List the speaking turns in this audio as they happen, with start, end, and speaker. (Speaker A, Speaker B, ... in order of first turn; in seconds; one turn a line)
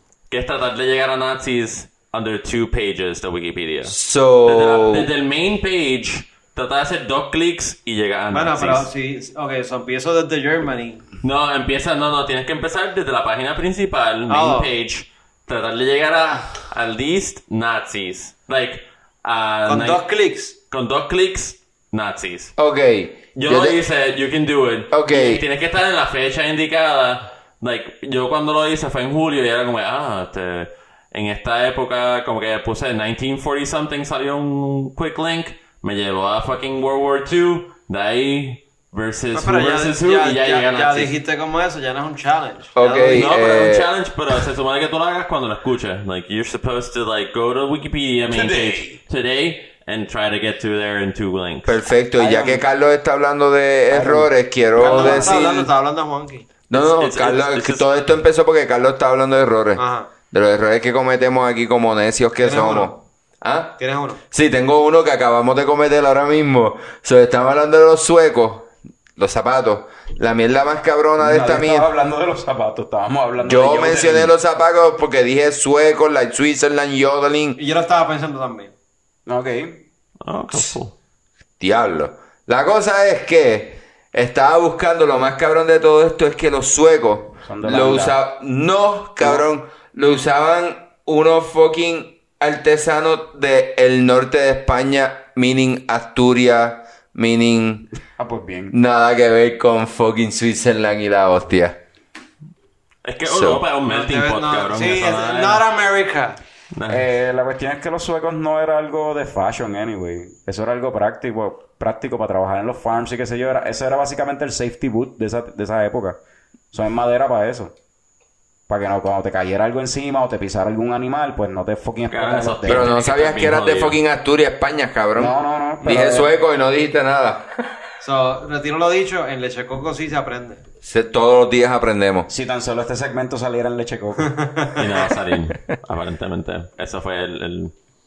Speaker A: 0.3-8.9
Speaker B: 3.9-5.1
Speaker C: 8.3-11.1
Speaker A: 11.2-20.1
Speaker C: 14.3-14.7
Speaker C: 19.7-20.5
Speaker A: 20.7-22.5
Speaker B: 22.6-23.8
Speaker A: 23.4-41.1
Speaker B: 24.9-25.4
Speaker C: 39.3-43.4
Speaker B: 42.8-43.9
Speaker A: 43.1-51.8
Speaker D: 48.3-49.0
Speaker B: 51.6-55.5
Speaker D: 52.2-52.6
Speaker D: 53.9-55.7
Speaker C: 54.8-56.5
Speaker B: 56.7-63.8
Speaker A: 56.7-57.9
Speaker C: 59.8-60.1
Speaker C: 62.4-62.9
Speaker C: 63.8-64.2
Speaker B: 64.3-71.9
Speaker D: 71.2-74.3
Speaker B: 73.4-77.6
Speaker C: 77.6-78.7
Speaker D: 79.2-79.8
Speaker A: 80.2-80.9
Speaker B: 81.6-97.9
Speaker D: 87.5-88.2
Speaker D: 98.2-98.7
Speaker B: 98.7-101.8
Speaker A: 103.0-105.7
Speaker B: 103.2-103.6
Speaker C: 103.9-106.4
Speaker A: 106.7-107.1
Speaker D: 106.9-116.2
Speaker D: 116.7-117.7
Speaker D: 118.7-122.9
Speaker A: 122.1-124.0
Speaker B: 122.7-127.5
Speaker D: 125.2-126.3
Speaker C: 128.0-130.6
Speaker B: 130.8-132.3
Speaker D: 132.3-134.5
Speaker C: 134.4-134.7
Speaker A: 134.8-137.7